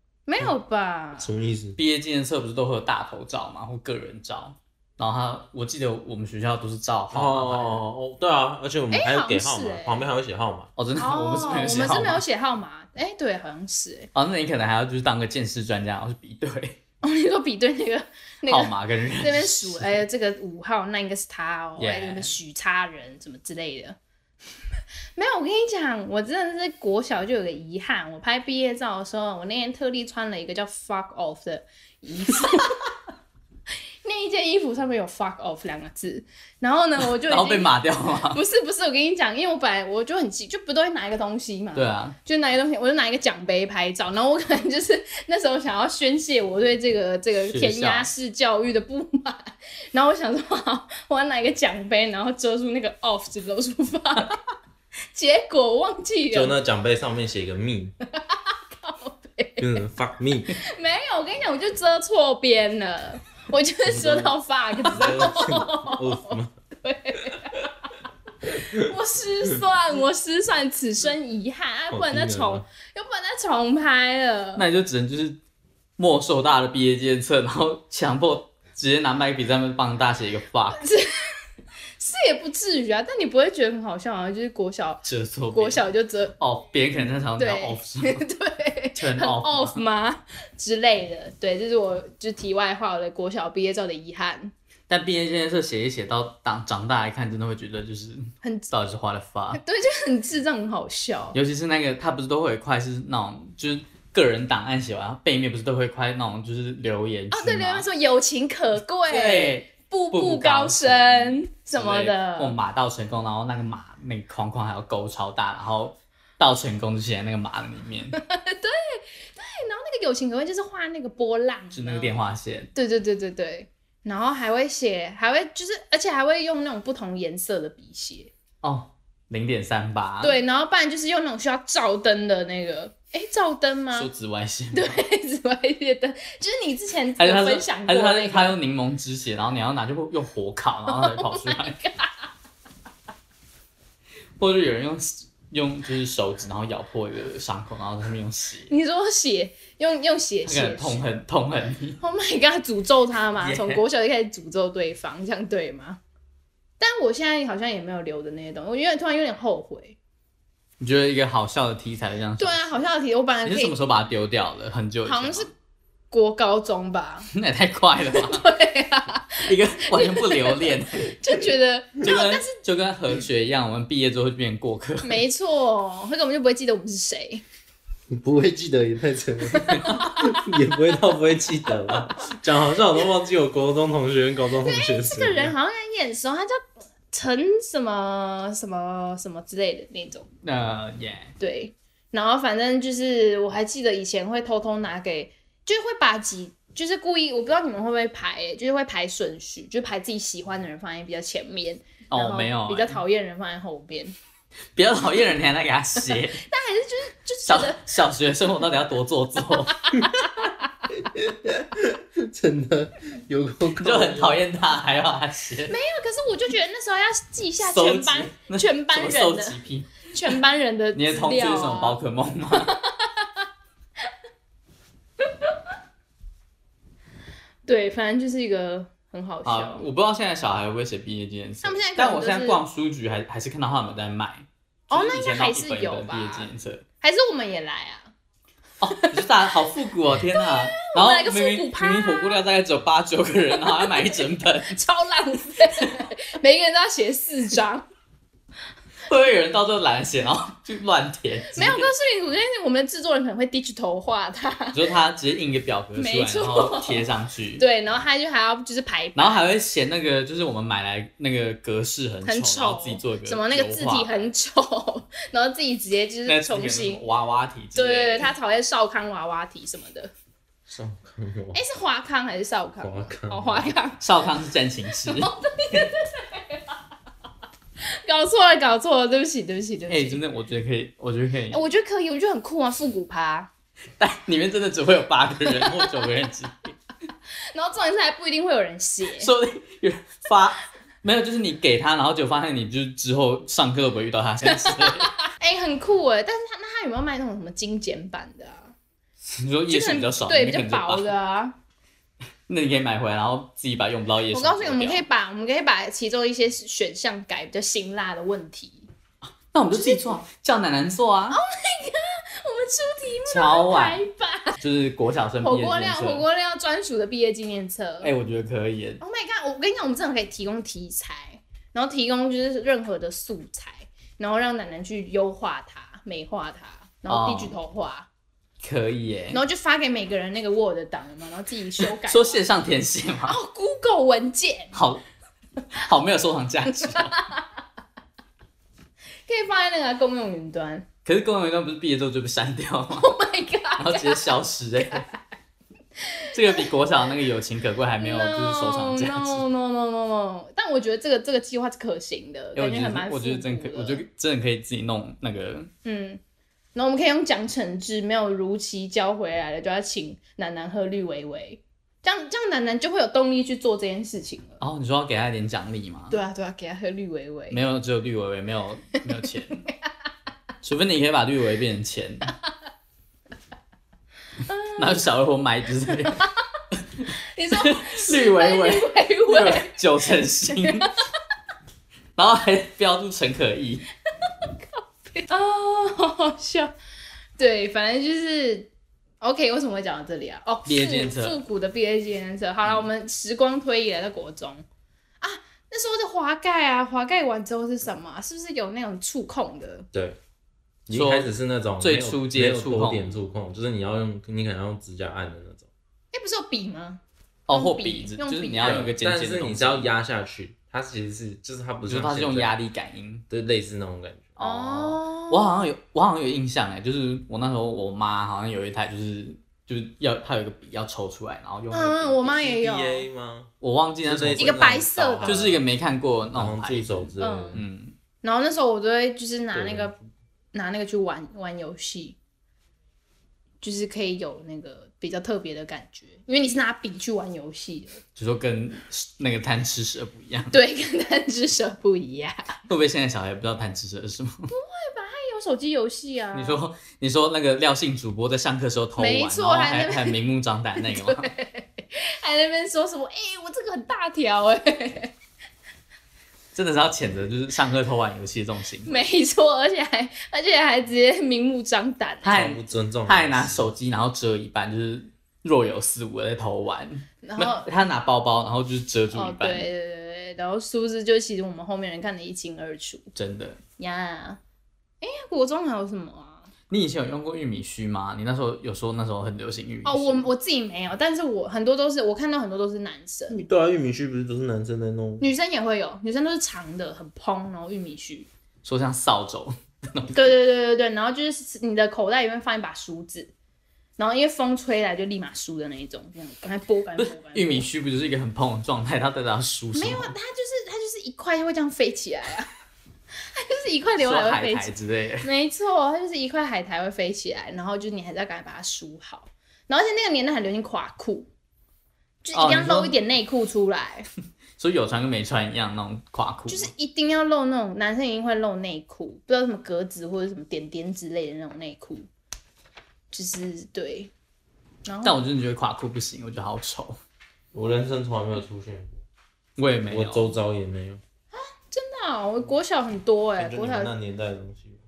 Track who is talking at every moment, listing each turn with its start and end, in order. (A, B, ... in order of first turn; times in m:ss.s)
0:00.3-0:01.3 A
0:01.2-0:01.8 B
0:01.8-0:07.8 C
0:07.1-0:10.7 B
0:08.9-0:10.1 A
0:10.8-0:12.2 C
0:11.0-0:14.1 A
0:14.1-0:16.8 C
0:17.0-0:24.0 A
0:18.5-0:20.0 C
0:21.8-0:22.3 C
0:25.1-0:32.8 A
0:34.0-0:37.7 A
0:37.0-0:38.4 C
0:38.3-0:54.4 A
0:41.7-0:42.2 C
0:47.4-0:48.1 C
0:55.1-0:56.5 A
0:56.3-0:57.9 B
0:58.1-0:59.8 A
0:59.6-1:00.6 B
1:00.5-1:07.7 A
1:03.9-1:06.5 B
1:08.5-1:14.6 A
1:11.9-1:12.6 B
1:14.6-1:15.4 C
1:16.0-1:20.8 C
1:20.7-1:21.4 A
1:22.0-1:26.3 A
1:25.0-1:25.9 C
1:26.4-1:28.2 C
1:27.4-1:34.5 A
1:29.0-1:29.8 C
1:34.9-1:39.6 C
1:38.4-1:38.7 A
1:39.5-1:41.4 A
1:41.3-1:47.9 C
1:47.3-1:52.6 A
1:49.0-1:58.2 C
1:58.1-2:02.2 A
2:01.7-2:02.7 C
2:02.7-2:08.3 A
2:08.6-2:10.4 C
2:10.2-2:14.1 A
2:13.9-2:15.0 C
2:14.7-2:18.6 A
2:17.2-2:21.8 C
2:20.9-2:22.2 A
2:24.4-2:28.7 C
2:28.7-2:31.0 A
2:30.4-2:32.0 C
2:32.0-2:36.0 A
2:33.4-2:33.8 C
2:36.8-2:40.0 A
2:40.8-2:42.8 C
2:42.4-2:43.7 A
2:43.4-2:45.5 C
2:45.0-2:45.5 A
2:46.1-2:47.3 A
2:47.3-2:48.5 C
2:48.1-2:52.5 A
2:49.4-2:51.1 C
2:52.0-2:55.2 C
2:55.0-2:57.4 A
2:58.1-3:05.5 B
2:59.5-3:00.5 A
3:04.6-3:10.3 A
3:10.4-3:11.3 C
3:11.4-3:24.1 A
3:22.1-3:23.0 C
3:24.7-3:26.4 C
3:26.4-3:27.9 A
3:27.4-3:30.0 C
3:29.8-3:30.7 A
3:31.0-3:34.4 B
3:33.7-3:35.7 C
3:35.7-3:39.6 A
3:37.6-3:40.4 C
3:40.1-3:42.0 A
3:40.9-3:42.7 C
3:42.5-3:43.3 A
3:47.6-3:49.8 A
3:49.4-3:56.8 C
3:51.6-3:52.6 A
3:54.9-3:56.5 A
3:57.0-3:58.1 A
3:58.8-4:04.8 C
3:58.9-3:59.3 A
4:00.3-4:02.4 A
4:03.6-4:07.8 A
4:09.1-4:11.9 C
4:11.5-4:14.8 A
4:14.7-4:17.6 C
4:16.0-4:17.1 A
4:17.6-4:19.4 A
4:19.1-4:24.2 C
4:22.2-4:27.0 A
4:26.2-4:28.3 C
4:27.7-4:30.1 A
4:30.7-4:31.6 B
4:31.5-4:34.0 A
4:32.8-4:33.7 B
4:34.0-4:35.9 C
4:35.0-4:36.8 A
4:37.8-4:40.2 A
4:39.9-4:41.6 C
4:41.5-4:43.5 A
4:44.0-4:46.7 C
4:45.5-4:45.8 A
4:47.5-4:49.3 A
4:49.2-4:55.1 C
4:54.5-4:58.7 A
4:59.3-5:01.1 C
4:59.7-5:01.5 A
5:02.5-5:05.0 C
5:04.3-5:08.9 A
5:09.5-5:11.4 C
5:09.7-5:10.2 A
5:11.3-5:14.6 A
5:13.3-5:14.0 C
5:14.6-5:16.2 C
5:15.4-5:18.1 A
5:18.0-5:19.0 C
5:19.0-5:28.1 A
5:27.1-5:27.6 C
5:28.6-5:29.4 C
5:29.3-5:32.4 A
5:31.8-5:33.4 C
5:33.2-5:34.7 A
5:34.7-5:35.0 C
5:35.7-5:37.2 C
5:36.7-5:37.4 A
5:39.3-5:40.8 A
5:41.0-5:43.1 C
5:43.0-5:45.1 A
5:43.8-5:45.0 C
5:46.1-5:46.7 A
5:46.3-5:49.4 C
5:48.0-5:54.0 A
5:52.6-5:55.7 C
5:55.8-5:56.2 A
5:56.7-6:04.6 A
6:04.6-6:06.2 C
6:06.1-6:07.6 A
6:07.5-6:09.6 C
6:10.6-6:12.3 C
6:14.4-6:15.0 A
6:14.8-6:16.2 C
6:17.0-6:20.9 C
6:17.3-6:19.7 A
6:20.5-6:20.8 A
6:22.2-6:23.9 C
6:25.1-6:26.7 A
6:27.4-6:34.6 A
6:30.7-6:31.4 C
6:35.2-6:39.9 A
6:39.9-6:40.2 B
6:40.9-6:45.7 B
6:40.9-6:43.2 C
6:46.1-6:48.9 A
6:47.5-6:49.9 C
6:48.6-6:52.5 B
6:51.9-6:53.2 C
6:53.3-6:55.0 B
6:54.4-6:55.6 A
6:55.3-7:02.3 C
7:01.7-7:03.0 A
7:02.2-7:03.5 B
7:03.6-7:07.9 C
7:04.0-7:05.6 B
7:04.4-7:05.4 A
7:06.3-7:07.6 B
7:07.2-7:07.6 A
7:08.2-7:09.9 A
7:09.5-7:10.0 B
7:10.5-7:12.2 A
7:13.6-7:18.0 A
7:18.2-7:20.6 C
7:20.5-7:22.5 A
7:22.7-7:24.5 C
7:24.5-7:26.6 A
7:26.3-7:31.3 C
7:29.0-7:30.2 A
7:30.8-7:35.1 A
7:36.5-7:38.9 C
7:38.8-7:42.4 A
7:42.2-7:49.7 C
7:42.3-7:43.7 B
7:47.2-7:47.7 A
7:49.1-7:53.1 A
7:53.2-7:53.6 C
7:53.8-7:54.4 A
7:55.0-7:56.5 A
7:56.7-8:00.3 C
7:59.8-8:03.4 A
8:03.3-8:05.3 B
8:05.2-8:08.3 A
8:08.6-8:10.3 C
8:10.1-8:13.3 A
8:14.0-8:17.7 A
8:17.0-8:20.1 C
8:19.7-8:22.5 A
8:23.3-8:31.3 A
8:24.0-8:25.3 C
8:32.2-8:34.1 A
8:32.3-8:32.9 C
8:34.6-8:36.7 C
8:36.5-8:42.1 A
8:43.1-8:44.1 A
8:44.8-8:45.2 A
8:45.0-8:47.0 C
8:47.5-8:49.0 B
8:49.6-8:50.3 C
8:49.9-8:51.0 B
8:51.3-8:53.9 A
8:53.4-8:54.8 B